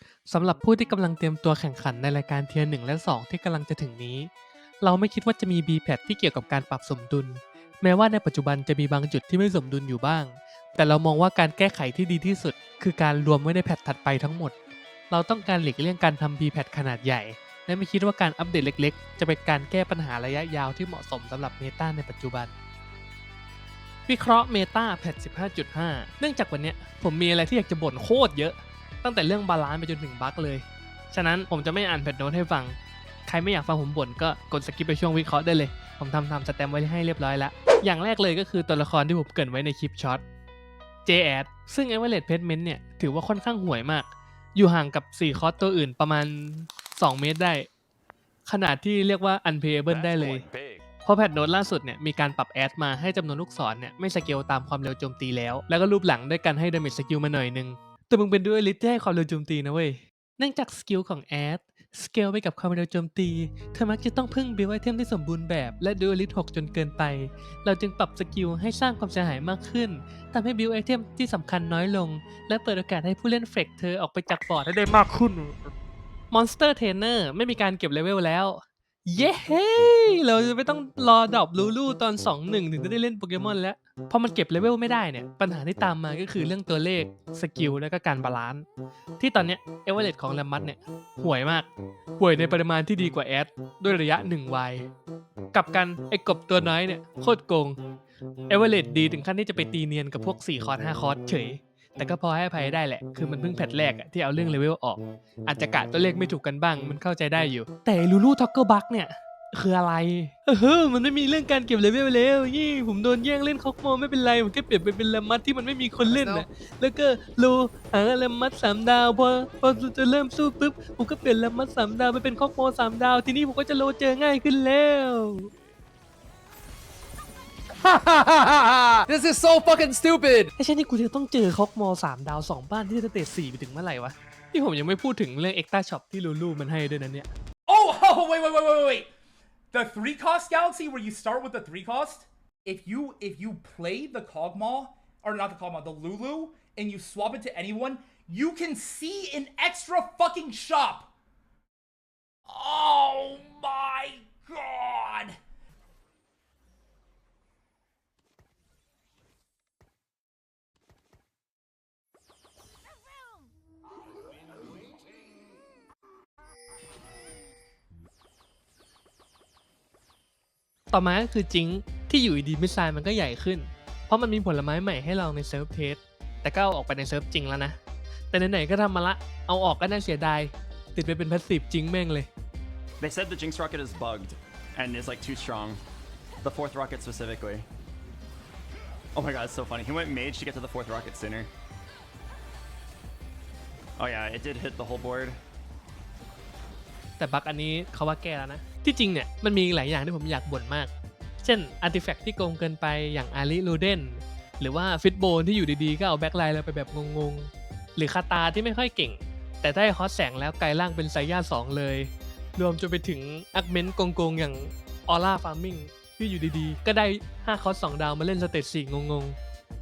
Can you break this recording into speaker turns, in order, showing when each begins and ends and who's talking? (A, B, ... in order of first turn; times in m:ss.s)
0:00.3-0:04.3 A
0:04.8-0:14.5 A
0:15.1-0:22.5 A
0:24.1-0:40.2 A
0:41.0-0:47.7 A
0:48.5-0:50.4 A
0:49.9-0:50.8 B
0:51.0-1:15.6 A
1:16.3-1:28.6 A
1:29.2-1:34.9 A
1:35.5-1:37.8 A
1:38.5-2:05.5 A
1:56.0-1:56.4 C
2:07.8-2:10.5 C
2:10.6-2:17.3 A
2:17.7-2:19.1 D
2:19.7-2:31.1 D
2:32.5-2:35.4 D
2:50.9-2:57.8 A
2:58.3-3:02.3 A
3:03.0-3:05.8 B
3:06.4-3:07.7 B
3:09.2-3:11.5 B
3:14.0-3:15.4 B
3:17.2-3:39.4 A